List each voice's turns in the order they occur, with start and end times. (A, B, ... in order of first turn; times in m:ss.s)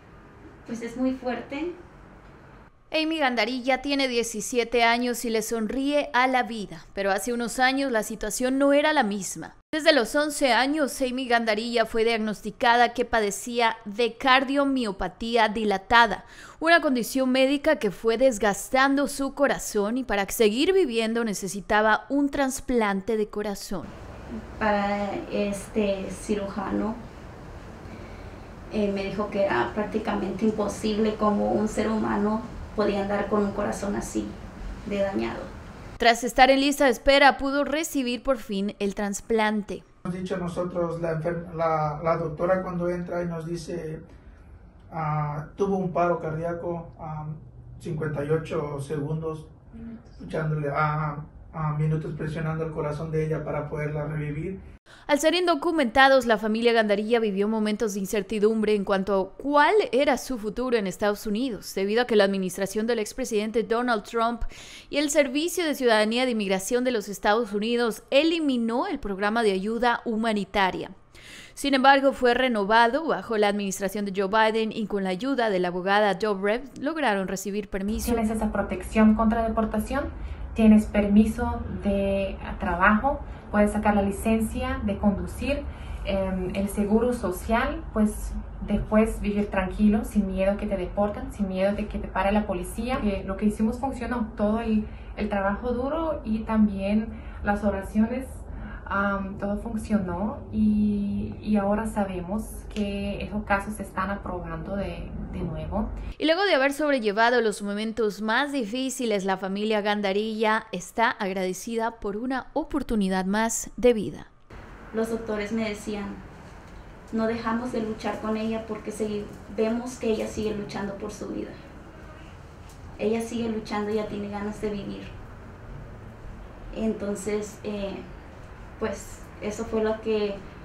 0:00.6-0:01.8 A
0:02.9-0:23.9 B
0:24.3-0:27.0 A
0:28.7-0:35.5 A
0:36.0-0:39.8 B
0:40.1-0:44.0 C
0:44.9-0:49.5 C
0:50.1-0:54.6 C
0:55.1-1:10.9 B
1:11.6-1:18.2 B
1:18.0-1:45.9 D
1:46.2-1:54.3 B
1:54.9-1:56.2 A
1:57.1-2:01.6 A
2:03.0-2:05.1 A
2:06.7-2:08.0 A
2:08.8-2:10.4 A